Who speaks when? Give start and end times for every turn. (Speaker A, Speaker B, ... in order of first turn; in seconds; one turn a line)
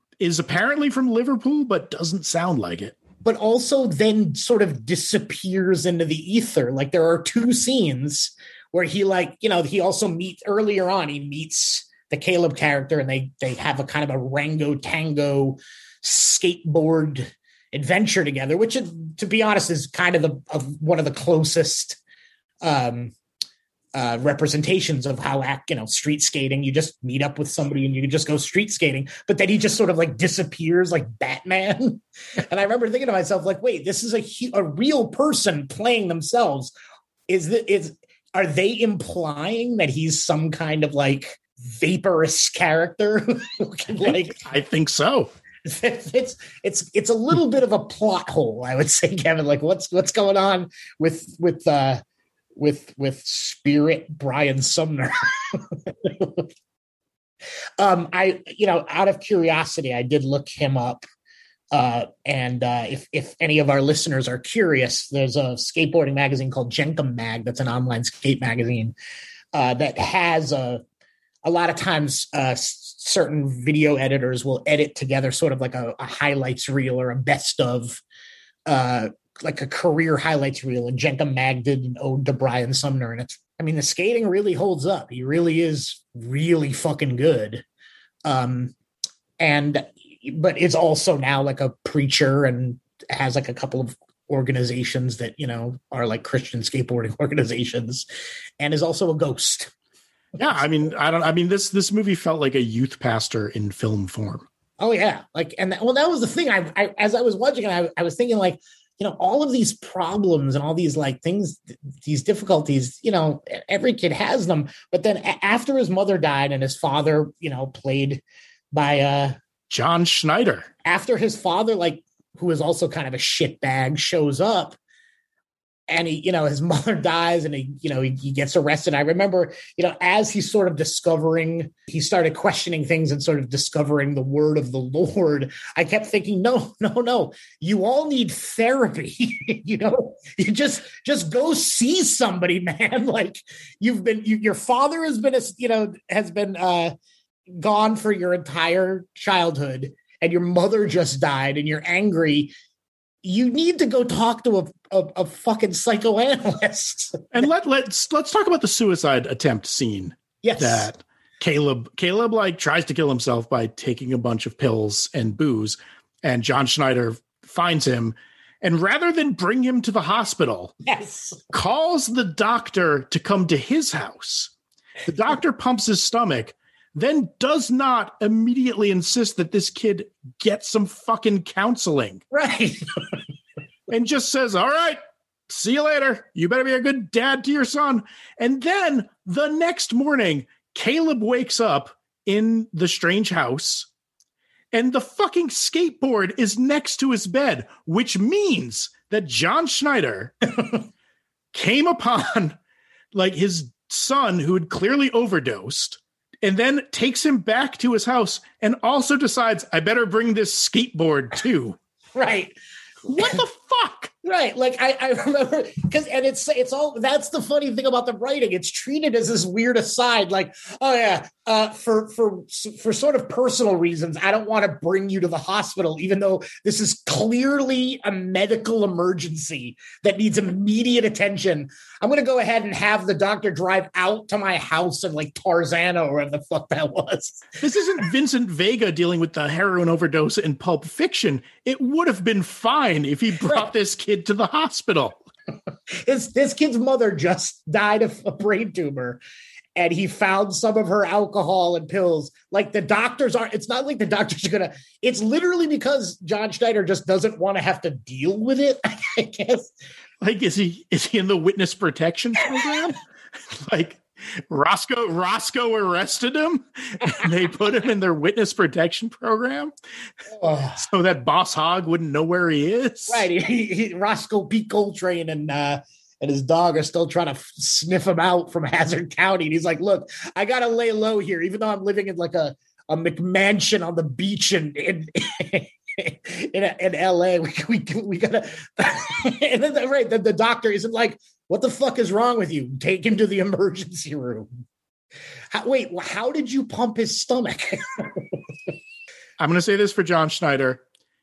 Speaker A: 0.2-3.0
Speaker B: 3.2-22.0
Speaker B: 22.6-23.1
Speaker B: 23.9-36.7
Speaker B: 37.3-44.4
Speaker A: 44.0-45.3
Speaker B: 45.6-52.0
Speaker B: 52.5-56.5
Speaker B: 57.8-61.0
Speaker B: 61.7-68.9
Speaker B: 69.5-70.8
Speaker B: 71.4-78.0
Speaker B: 78.7-87.6
Speaker B: 88.2-88.7
Speaker B: 89.4-98.0
Speaker B: 98.6-99.7
Speaker A: 100.3-104.5
Speaker B: 104.8-119.3
Speaker A: 119.7-120.7
Speaker B: 120.8-124.8
Speaker B: 125.9-146.9
Speaker B: 147.5-152.5
Speaker B: 153.2-157.3
Speaker A: 157.3-170.7
Speaker B: 160.4-160.9
Speaker B: 170.8-171.4
Speaker A: 171.5-174.5
Speaker A: 175.1-182.2
Speaker B: 182.3-183.2
Speaker A: 183.9-193.9
Speaker A: 194.7-200.3
Speaker A: 201.5-202.6
Speaker A: 203.1-211.8
Speaker B: 212.1-212.5
Speaker A: 213.1-214.1
Speaker B: 213.1-213.4
Speaker B: 214.2-237.6
Speaker A: 237.6-245.2
Speaker B: 245.9-249.2
Speaker B: 249.8-259.7
Speaker A: 260.2-263.0
Speaker A: 263.5-269.7
Speaker B: 270.3-270.8
Speaker A: 270.8-273.3
Speaker B: 273.1-294.5
Speaker B: 295.5-298.4
Speaker A: 299.4-300.8